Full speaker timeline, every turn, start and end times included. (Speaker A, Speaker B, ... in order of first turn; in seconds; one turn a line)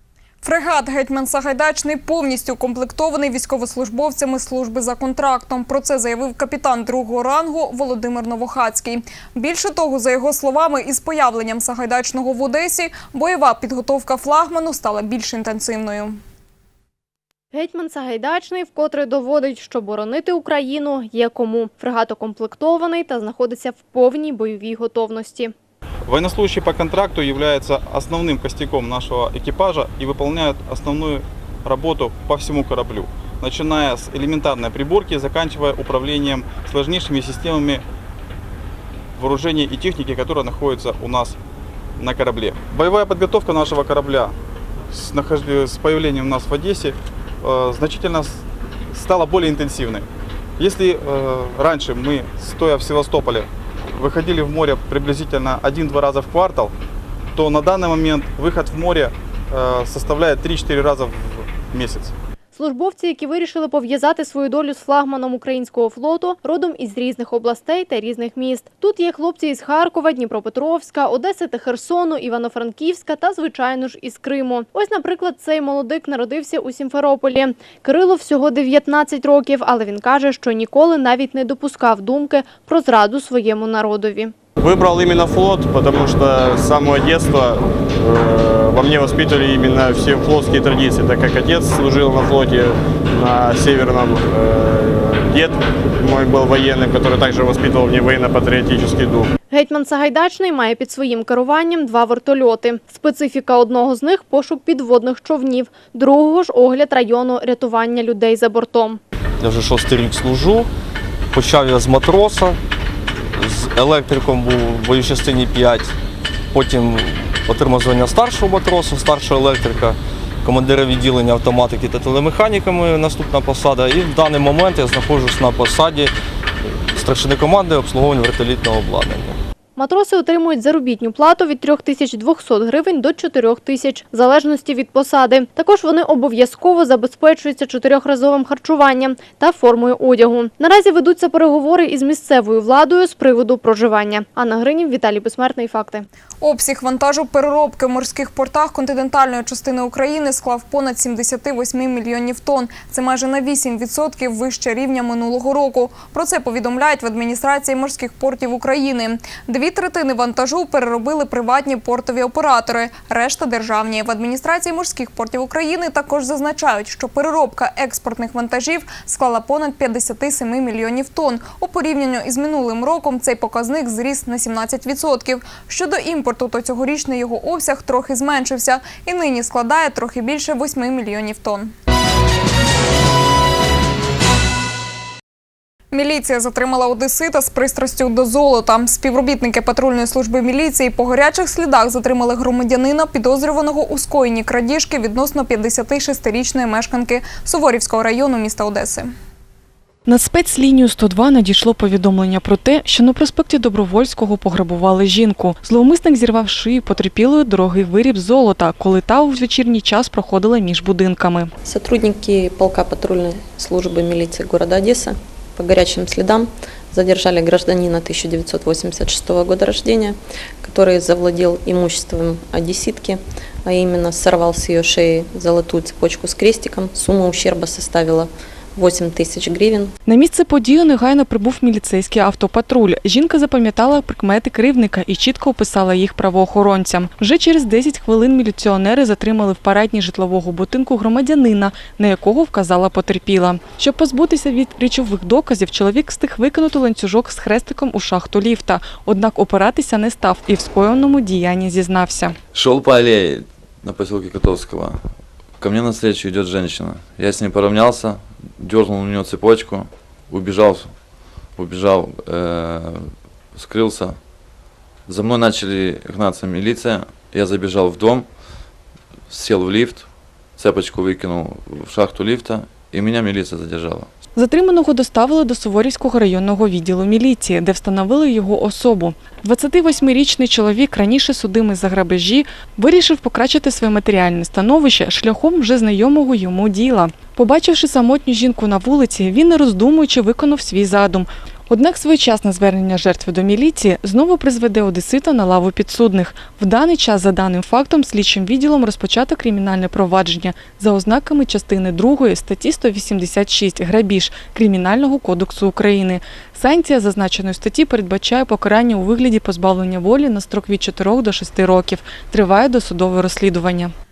Speaker A: 0.4-16.2
Speaker B: 17.5-25.5
Speaker C: 26.1-37.8
Speaker C: 39.2-41.4
Speaker C: 42.0-44.3
Speaker C: 44.9-48.4
Speaker C: 48.9-50.1
Speaker C: 50.6-56.7
Speaker C: 57.4-62.1
Speaker B: 62.5-84.3
Speaker D: 84.6-99.3
Speaker B: 99.5-109.0
Speaker E: 109.4-110.7
Speaker E: 111.3-112.6
Speaker E: 113.3-115.9
Speaker E: 116.5-126.1
Speaker E: 126.9-129.4
Speaker B: 129.8-146.1
Speaker A: 146.4-181.7
Speaker A: 185.9-199.1
Speaker F: 200.1-211.5
Speaker G: 211.6-229.9
Speaker F: 230.1-252.4
Speaker H: 252.5-264.2
Speaker H: 265.1-268.3
Speaker H: 269.3-274.1
Speaker F: 274.4-313.9